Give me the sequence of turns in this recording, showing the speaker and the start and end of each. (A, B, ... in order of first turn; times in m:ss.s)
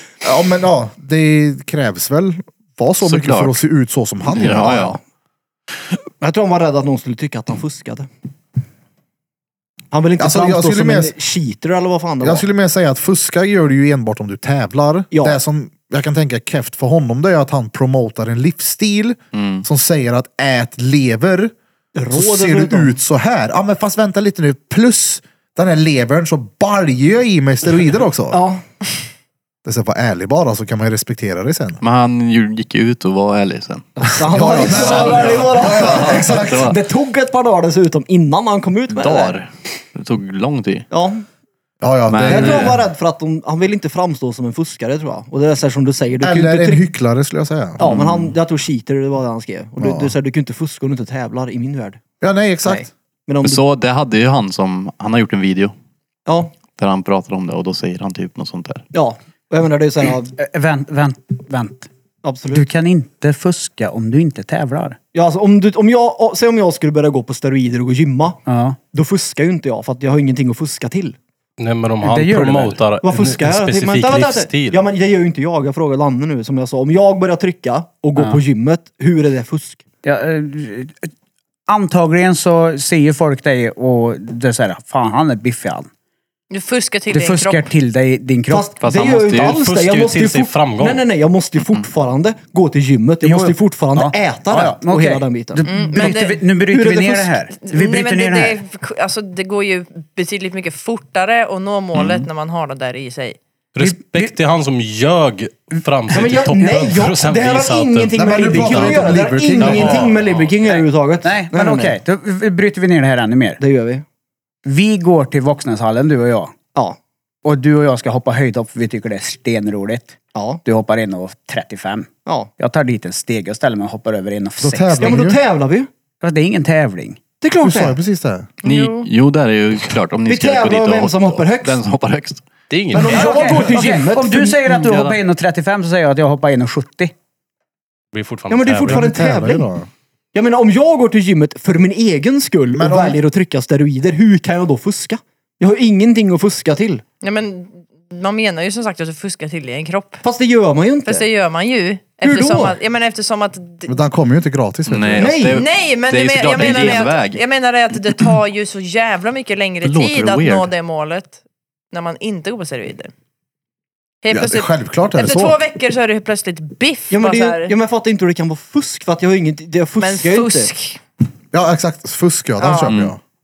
0:00.2-0:04.9 A
0:03.0-0:03.6 B
0:04.3-0:05.0 B
0:04.4-0:05.0 C
0:06.2-0:08.1 C
0:09.9-0:12.4 C
0:10.2-0:11.1 A
0:12.2-0:21.5 A
0:15.1-0:15.4 C
0:19.3-0:19.6 B
0:21.9-0:23.0 C
0:22.1-0:28.4 A
0:28.3-0:28.6 C
0:29.6-0:31.8 A
0:31.8-0:36.8 B
0:34.0-0:39.4 C
0:34.3-0:36.7 A
0:38.9-0:40.9 B
0:40.9-0:41.2 C
0:41.8-0:42.7 A
0:42.1-0:42.8 B
0:42.3-0:46.8 C
0:46.2-0:47.8 A
0:47.8-0:52.0 C
0:47.8-0:48.3 B
0:49.8-0:50.1 A
0:52.2-0:52.8 A
0:52.6-0:53.6 C
0:53.4-0:55.7 B
0:56.3-0:56.5 C
0:56.8-0:58.8 B
0:58.9-1:00.4 C
1:00.4-1:01.9 D
1:02.2-1:02.6 C
1:02.5-1:05.0 D
1:05.1-1:08.4 C
1:08.4-1:08.8 D
1:08.9-1:11.2 C
1:11.6-1:14.8 E
1:12.0-1:12.8 D
1:13.0-1:19.8 C
1:18.2-1:18.4 D
1:20.0-1:21.1 D
1:21.7-1:25.9 D
1:26.5-1:27.7 F
1:27.1-1:28.7 D
1:28.5-1:36.2 C
1:28.8-1:29.6 B
1:29.0-1:31.0 E
1:33.2-1:38.6 D
1:35.6-1:36.5 F
1:36.7-1:37.3 C
1:37.5-1:43.4 F
1:41.9-1:42.3 B
1:43.7-1:50.5 E
1:43.8-1:44.3 D
1:46.1-1:51.9 C
1:46.6-1:47.0 D
1:48.1-1:50.1 A
1:50.6-1:53.6 D
1:53.6-1:54.0 C
1:54.6-1:56.5 D
1:57.4-2:05.3 D
2:00.3-2:00.6 C
2:02.2-2:02.5 C
2:04.6-2:05.4 A
2:05.0-2:05.9 C
2:06.2-2:07.2 D
2:07.4-2:08.0 C
2:07.6-2:08.5 A
2:08.6-2:09.1 F
2:08.6-2:12.5 B
2:10.3-2:11.8 C
2:12.7-2:13.6 E
2:12.9-2:14.6 C
2:13.0-2:17.1 D
2:14.7-2:15.2 B
2:18.1-2:19.1 E
2:18.5-2:19.6 C
2:18.9-2:19.9 A
2:20.3-2:27.0 C
2:22.7-2:23.2 A
2:27.2-2:30.2 F
2:30.2-2:31.2 C
2:31.0-2:33.9 F
2:32.2-2:32.8 C
2:33.9-2:35.4 A
2:34.9-2:37.4 B
2:35.2-2:35.6 C
2:35.5-2:41.4 F
2:39.8-2:40.7 B
2:41.9-2:43.1 F
2:44.2-2:47.7 F
2:44.3-2:45.6 A
2:47.1-2:50.7 C
2:50.0-2:51.0 F
2:51.5-2:53.2 A
2:52.6-2:52.9 F
2:52.8-2:53.1 B